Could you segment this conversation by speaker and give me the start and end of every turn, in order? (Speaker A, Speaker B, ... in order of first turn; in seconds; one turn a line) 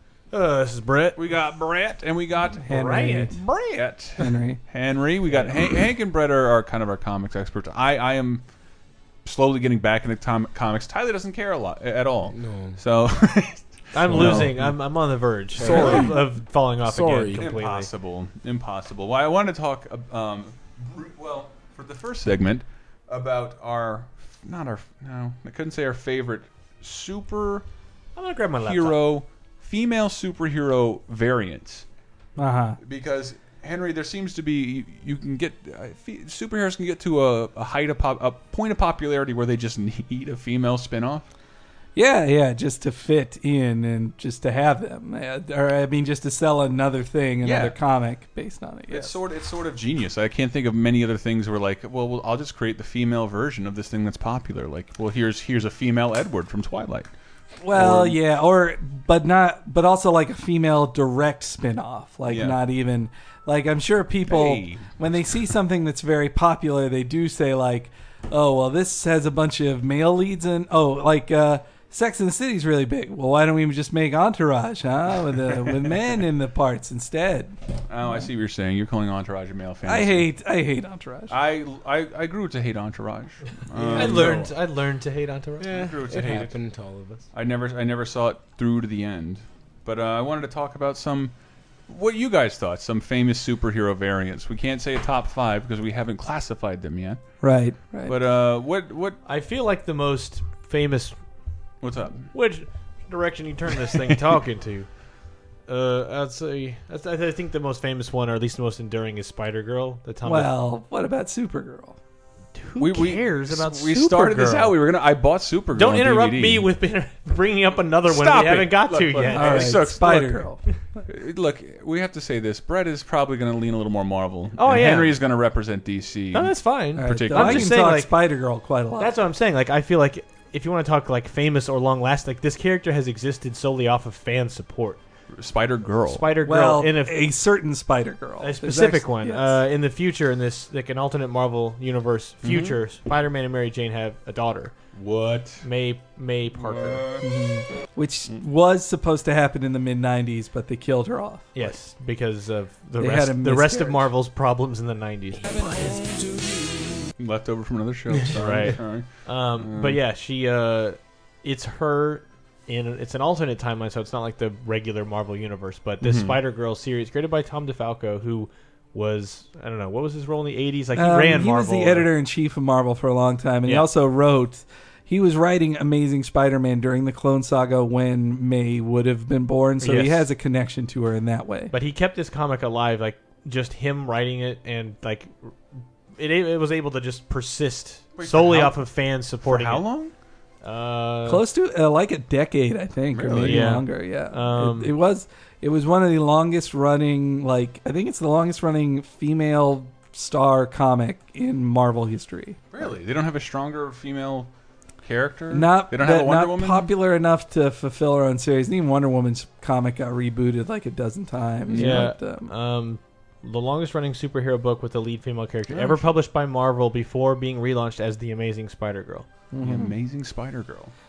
Speaker A: 0.3-1.2
Speaker B: 1.2-2.7
Speaker C: 2.6-3.4
Speaker A: 2.7-3.3
Speaker B: 3.3-8.4
Speaker C: 4.2-4.6
Speaker B: 9.2-14.7
Speaker D: 12.3-12.8
Speaker A: 13.9-17.9
Speaker D: 15.6-16.2
Speaker B: 15.6-16.1
Speaker D: 16.8-17.4
Speaker B: 17.4-27.6
Speaker A: 28.2-29.0
Speaker B: 28.6-31.9
Speaker C: 32.4-32.8
Speaker B: 32.8-41.3
Speaker C: 42.0-49.2
Speaker B: 47.4-47.8
Speaker B: 48.9-57.1
Speaker C: 57.6-78.3
Speaker B: 57.7-58.2
Speaker B: 62.3-62.6
Speaker B: 64.3-65.4
Speaker B: 77.9-80.3
Speaker C: 79.8-81.4
Speaker B: 81.3-84.5
Speaker A: 84.0-85.7
Speaker D: 85.6-87.3
Speaker B: 85.7-86.6
Speaker B: 87.3-91.3
Speaker B: 91.9-97.2
Speaker C: 97.4-98.2
Speaker B: 98.0-99.2
Speaker A: 99.2-101.2
Speaker B: 101.8-102.3
Speaker A: 102.3-104.9
Speaker B: 103.9-104.2
Speaker A: 105.7-110.5
Speaker C: 110.2-112.0
Speaker A: 112.6-114.8
Speaker B: 112.8-116.7
Speaker A: 115.7-119.8
Speaker B: 118.1-120.5
Speaker C: 119.3-120.6
Speaker B: 121.1-127.8
Speaker A: 124.6-125.2
Speaker A: 126.3-128.1
Speaker C: 127.0-129.2
Speaker A: 129.0-135.0
Speaker B: 135.4-136.3
Speaker A: 136.1-137.2
Speaker C: 136.4-139.6
Speaker A: 138.4-144.7
Speaker B: 142.4-142.8
Speaker B: 144.9-145.7
Speaker A: 145.6-147.0
Speaker B: 146.6-147.3
Speaker C: 147.2-151.5
Speaker A: 151.6-156.0
Speaker C: 153.0-154.1
Speaker B: 157.2-160.0
Speaker A: 158.3-172.1
Speaker B: 166.0-166.4
Speaker C: 170.9-181.7
Speaker A: 179.8-180.3
Speaker A: 181.7-185.5
Speaker A: 186.2-189.8
Speaker B: 188.2-188.8
Speaker B: 189.4-190.1
Speaker A: 190.6-191.4
Speaker C: 191.3-202.6
Speaker B: 193.1-193.8
Speaker A: 193.4-194.9
Speaker B: 202.7-204.5
Speaker B: 205.0-206.9
Speaker C: 205.5-212.5
Speaker B: 211.7-212.1
Speaker A: 211.8-219.3
Speaker B: 215.7-216.0
Speaker C: 219.5-220.0
Speaker B: 219.6-220.9